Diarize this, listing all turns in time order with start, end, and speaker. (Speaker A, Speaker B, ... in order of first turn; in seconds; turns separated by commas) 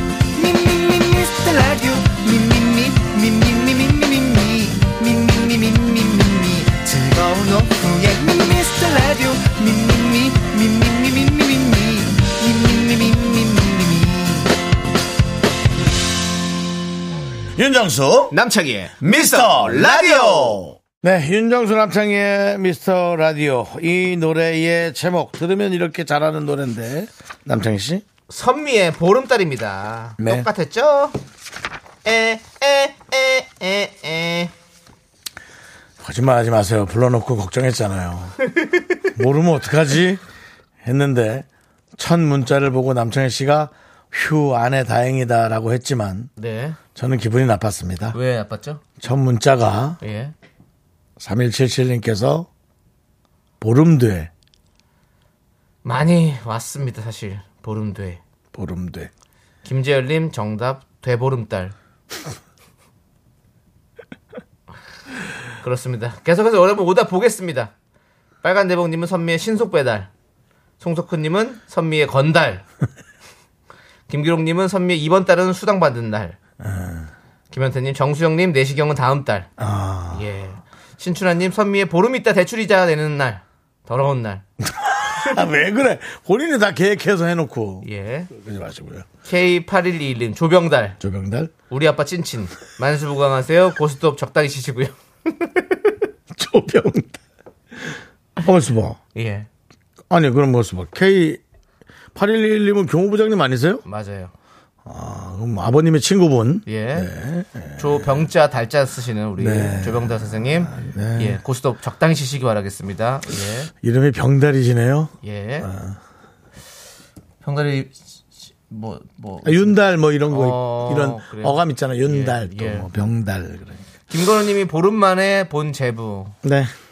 Speaker A: 0.3-14.5, Speaker B: 17.6-18.4, Speaker C: 18.3-20.6, Speaker B: 19.0-28.1, Speaker C: 28.3-31.1, Speaker B: 30.2-30.5, Speaker C: 32.0-34.5, Speaker B: 36.0-38.4, Speaker B: 39.1-40.2, Speaker B: 40.8-46.3, Speaker C: 46.4-46.8, Speaker B: 47.0-48.2, Speaker C: 48.1-48.8, Speaker B: 49.0-50.0, Speaker C: 50.0-50.3, Speaker B: 51.2-52.5, Speaker B: 53.6-54.3, Speaker C: 55.8-58.2, Speaker B: 58.5-59.1, Speaker C: 59.6-61.7, Speaker C: 65.6-67.7, Speaker C: 68.4-70.1, Speaker C: 70.8-72.7, Speaker C: 74.1-76.4, Speaker B: 76.6-77.1, Speaker C: 77.5-79.5, Speaker B: 79.6-80.2, Speaker C: 80.1-84.4, Speaker B: 84.7-89.1, Speaker C: 87.8-88.3, Speaker C: 89.2-91.0, Speaker B: 91.0-91.5, Speaker C: 91.7-95.8, Speaker B: 96.3-97.2, Speaker B: 97.8-99.0, Speaker C: 99.2-99.5, Speaker B: 100.1-101.4, Speaker B: 102.2-103.8, Speaker C: 103.8-104.3, Speaker B: 104.9-108.3, Speaker C: 106.7-107.1, Speaker C: 107.8-113.7, Speaker B: 109.4-111.4, Speaker B: 113.8-116.0, Speaker C: 115.2-115.7, Speaker C: 117.4-118.0, Speaker C: 118.7-119.8, Speaker B: 119.4-123.8, Speaker C: 120.3-122.9, Speaker C: 124.1-126.4, Speaker B: 126.4-126.7